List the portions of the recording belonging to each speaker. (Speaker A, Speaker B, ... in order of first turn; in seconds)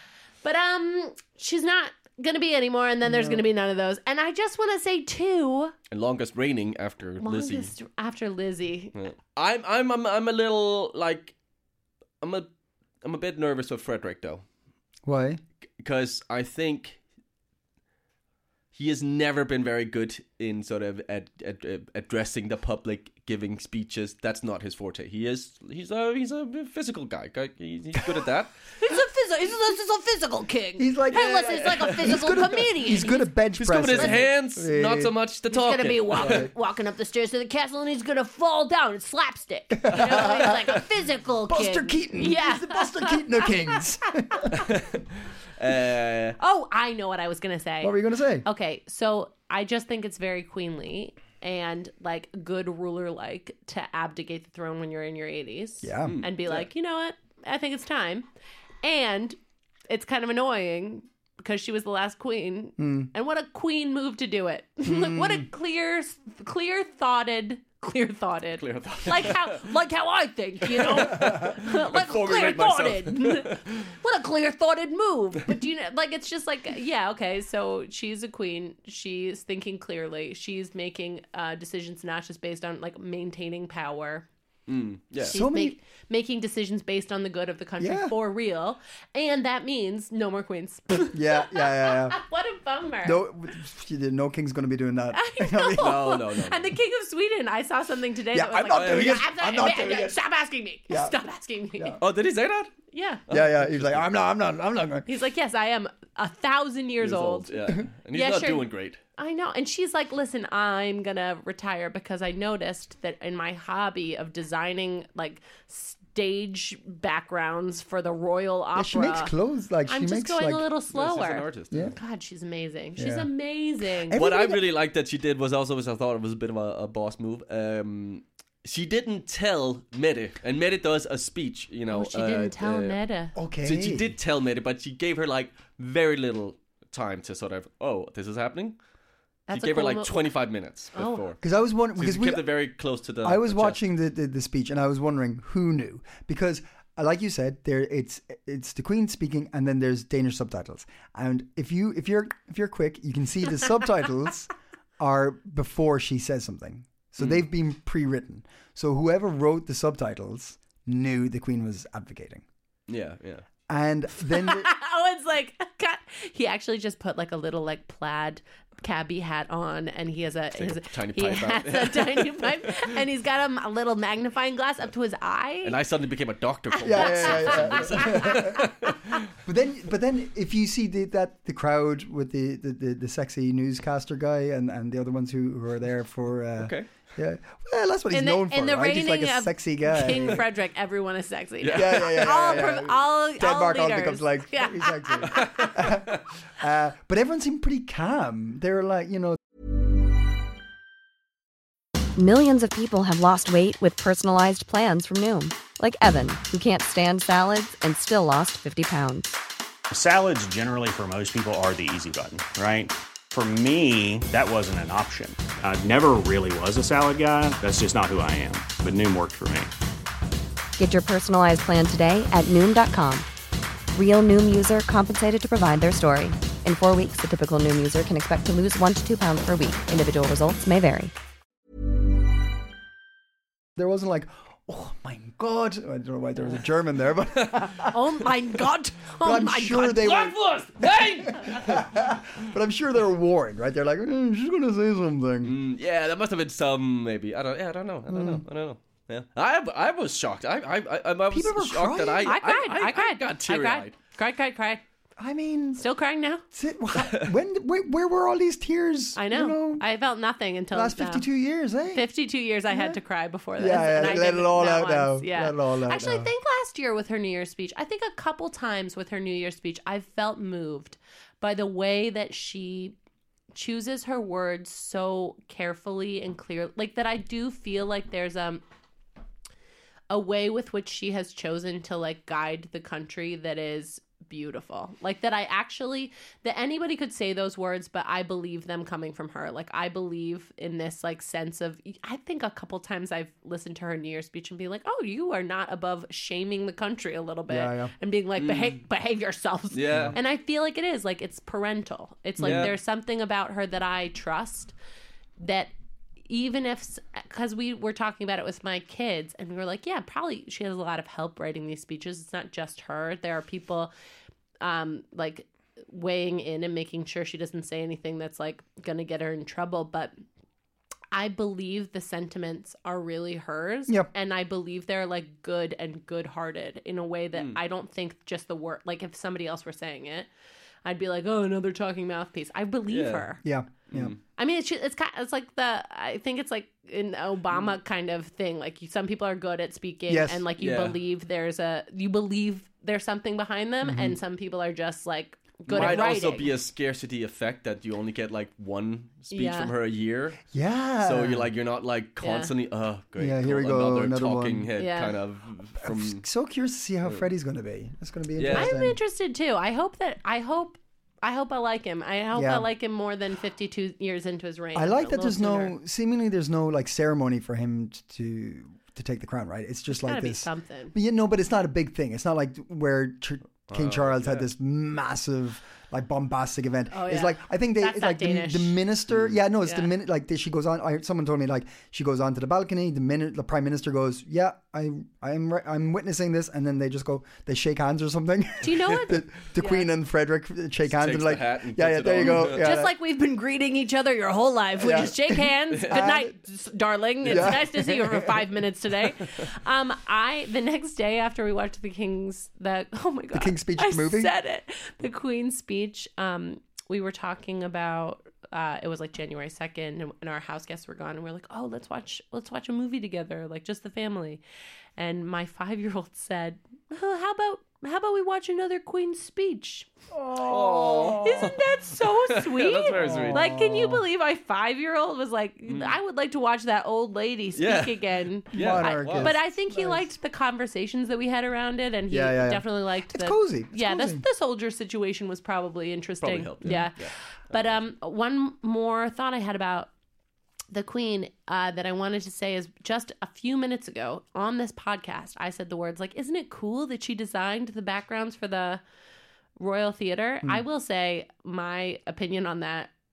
Speaker A: 0.4-5.7, 7.2-9.0, 28.8-33.3, 33.9-34.3, 35.5-43.8, 46.4-58.3, 58.8-59.4, 59.9-84.3, 85.3-93.2, 95.1-102.0, 102.9-103.2, 105.1-107.6, 108.1-119.3, 119.9-124.2, 131.9-133.4, 139.5-140.2, 140.9-141.2, 164.3-175.8, 176.8-178.7, 188.1-195.9, 237.9-240.2, 252.2-254.8, 255.8-256.4, 259.2-261.3, 261.9-273.0, 273.5-278.6, 280.1-304.7, 305.4-305.7, 306.2-313.9, 314.6-320.1, 321.1-330.3, 330.9-333.4, 334.4-346.5, 349.3-349.7, 352.2-352.5, 354.8-355.2, 358.5-365.8, 369.9-370.9, 376.9-378.8, 379.6-379.9, 388.6-389.9, 392.2-414.4, 415.0-419.9, 421.2-439.9, 440.7-448.8, 449.6-452.9
Speaker B: 3.1-3.4, 15.1-15.4, 30.8-35.1, 36.2-36.5, 39.8-40.8, 41.5-44.7, 47.8-48.5, 55.8-56.2, 62.8-63.1, 64.8-65.5, 71.1-71.5, 85.2-85.8, 87.8-88.1, 91.1-92.2, 93.0-96.1, 98.3-100.2, 100.9-101.2, 103.3-105.1, 118.8-120.7, 123.0-123.3, 124.1-124.6, 133.4-134.1, 141.4-142.5, 143.2-162.4, 163.7-164.7, 176.8-178.7, 179.4-190.4, 191.7-199.4, 233.8-238.0, 239.2-240.4, 241.2-245.6, 248.1-248.4, 251.3-252.4, 255.2-255.9, 256.5-259.8, 260.7-262.1, 262.7-263.0, 263.6-266.3, 297.5-297.9, 299.9-300.2, 302.4-302.7, 333.4-334.1, 340.1-340.4, 343.8-344.2, 350.5-351.5, 353.2-354.7, 355.8-359.0, 362.3-362.7, 364.8-392.9, 394.8-396.3, 397.2-398.4, 403.3-404.3, 420.1-421.6, 422.9-424.0, 428.5-430.1, 432.1-434.2
Speaker C: 5.9-7.7, 8.9-11.3, 12.2-12.5, 13.0-14.4, 15.8-17.0, 18.7-28.5, 33.6-36.5, 44.6-45.1, 45.6-46.4, 56.0-56.6, 68.6-69.7, 70.7-73.8, 84.7-85.4, 95.8-96.7, 98.7-99.3, 102.0-102.7, 103.3-104.1, 107.0-109.0, 120.9-122.0, 124.1-133.0, 133.6-138.8, 139.5-141.4, 142.0-143.8, 157.2-157.4, 162.9-163.5, 170.6-172.9, 175.6-179.2, 186.6-186.9, 190.1-190.3, 191.6-192.6, 195.3-196.2, 240.0-241.9, 245.4-253.9, 257.0-257.3, 298.4-298.8, 299.7-300.2, 302.4-302.7, 332.9-333.3, 333.9-334.2, 340.6-341.0, 345.7-350.5, 351.0-356.2, 358.4-358.7, 373.7-374.5, 379.1-379.4, 390.9-392.7, 395.7-396.0, 397.2-397.6, 420.4-421.6, 422.2-423.5, 425.7-425.9, 427.6-428.0, 428.5-429.4, 436.2-437.8
Speaker D: 202.2-209.4, 220.8-223.3, 223.9-231.1
Speaker E: 209.9-219.7